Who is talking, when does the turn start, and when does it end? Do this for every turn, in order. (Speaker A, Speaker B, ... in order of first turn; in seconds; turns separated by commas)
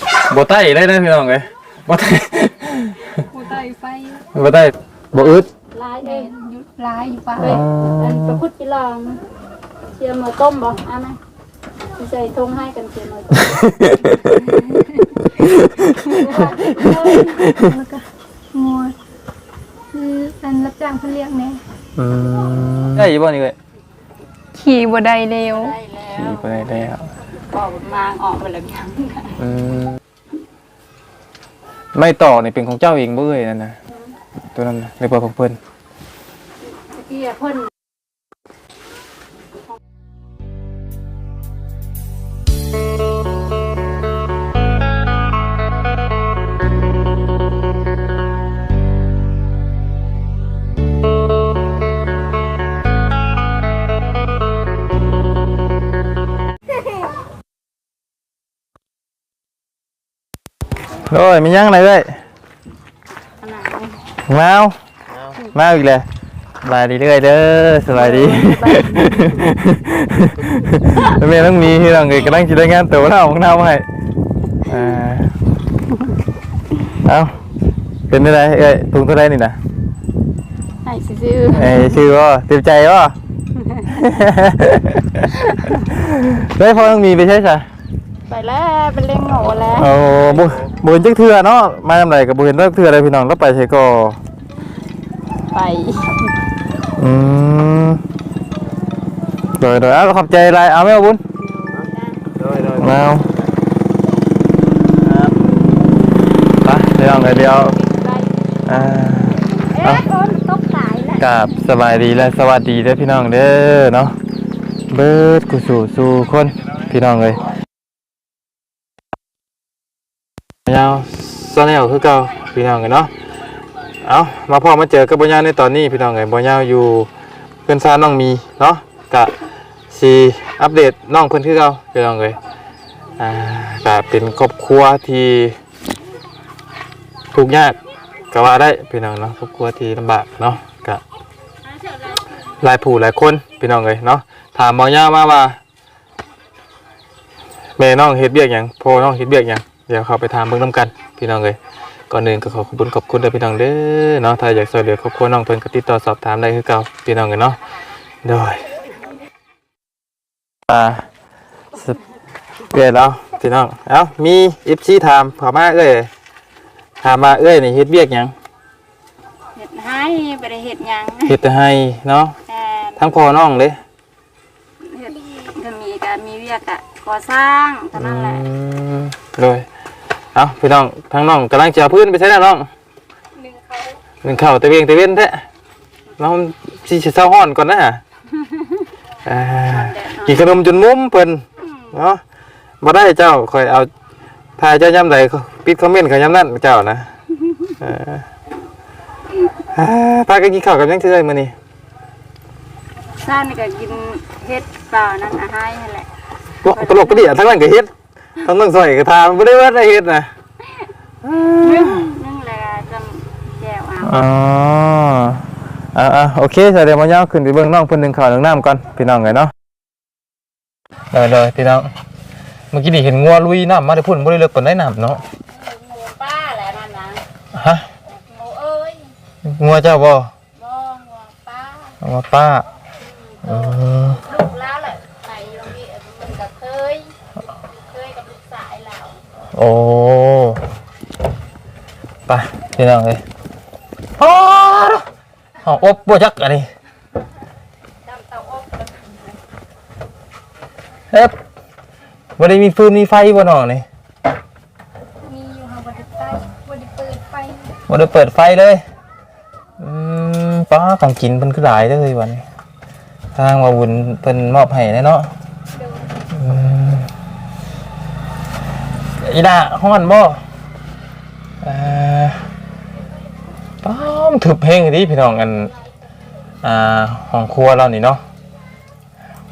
Speaker A: 0.3-3.2, Speaker B: 3.3-4.2, Speaker A: 4.3-5.5, Speaker C: 5.1-6.3, Speaker B: 6.0-7.6, Speaker A: 7.4-8.4, Speaker C: 7.4-9.2, Speaker C: 10.0-11.2, Speaker C: 12.0-14.1, Speaker A: 13.3-14.4, Speaker B: 14.5-15.2, Speaker A: 15.2-17.7, Speaker B: 16.0-18.9, Speaker C: 16.2-17.4, Speaker B: 19.9-21.6, Speaker A: 22.0-23.6, Speaker B: 24.5-25.8, Speaker C: 25.5-26.8, Speaker A: 26.2-27.1, Speaker C: 27.5-29.4, Speaker A: 29.4-30.0, Speaker A: 31.9-33.8, Speaker C: 33.9-34.1, Speaker A: 34.5-35.6, Speaker C: 36.6-37.7, Speaker A: 61.1-62.2, Speaker C: 63.4-64.0, Speaker A: 64.3-64.8, Speaker A: 65.4-66.0, Speaker A: 66.6-73.9, Speaker C: 67.9-69.4, Speaker C: 70.5-71.2, Speaker A: 74.6-75.3, Speaker A: 76.9-77.4, Speaker A: 78.1-79.6, Speaker C: 80.8-82.0, Speaker A: 81.5-83.2, Speaker C: 83.5-83.9, Speaker A: 83.9-87.7, Speaker C: 85.3-85.8, Speaker C: 88.3-90.5, Speaker A: 89.8-94.2, Speaker C: 95.5-96.3, Speaker A: 97.0-98.0, Speaker A: 99.6-101.2, Speaker C: 101.4-102.3, Speaker A: 102.6-103.3, Speaker A: 105.0-105.3, Speaker A: 106.6-107.8, Speaker C: 107.0-108.3, Speaker A: 108.7-110.0, Speaker C: 109.6-111.2, Speaker A: 111.2-114.1, Speaker A: 114.9-117.5, Speaker A: 120.7-123.1, Speaker A: 124.0-127.1, Speaker A: 127.7-129.3, Speaker A: 129.9-132.4, Speaker A: 133.2-135.6, Speaker A: 137.3-137.8, Speaker A: 138.3-141.0, Speaker A: 142.6-145.6, Speaker A: 147.8-151.6, Speaker A: 152.1-157.6, Speaker A: 158.2-158.7, Speaker A: 160.7-161.1, Speaker A: 162.7-166.1, Speaker A: 167.0-168.3, Speaker C: 169.5-171.4, Speaker A: 171.2-172.4, Speaker C: 172.5-173.0, Speaker A: 173.0-173.8, Speaker C: 174.8-178.4, Speaker A: 177.9-179.7, Speaker A: 180.3-182.7, Speaker B: 183.4-184.0, Speaker A: 184.2-185.5, Speaker A: 186.2-188.0, Speaker C: 188.4-188.7, Speaker A: 189.2-192.2, Speaker C: 189.6-190.5, Speaker A: 192.8-193.9, Speaker A: 194.6-197.1, Speaker A: 197.8-198.2, Speaker A: 199.7-201.5, Speaker C: 203.2-206.1, Speaker A: 206.6-210.3, Speaker C: 206.7-207.4, Speaker A: 211.2-212.1, Speaker C: 211.6-214.2, Speaker A: 214.0-219.5, Speaker A: 221.1-221.9, Speaker A: 222.7-225.2, Speaker C: 225.5-227.2, Speaker A: 227.5-227.9, Speaker C: 228.3-229.1, Speaker A: 229.4-230.3, Speaker C: 230.6-232.0, Speaker A: 232.0-232.6, Speaker C: 233.0-237.2, Speaker A: 233.4-234.2, Speaker C: 237.8-239.2, Speaker A: 239.5-240.6, Speaker A: 242.3-243.2, Speaker A: 244.2-245.0, Speaker A: 245.6-246.7, Speaker C: 248.0-249.2, Speaker A: 252.4-253.8, Speaker B: 255.2-257.8, Speaker A: 257.9-258.8, Speaker A: 259.8-262.4, Speaker A: 263.3-265.3, Speaker B: 265.7-266.2, Speaker A: 266.3-267.1, Speaker A: 269.2-270.4, Speaker A: 271.6-272.5, Speaker A: 273.8-275.7, Speaker A: 276.6-278.2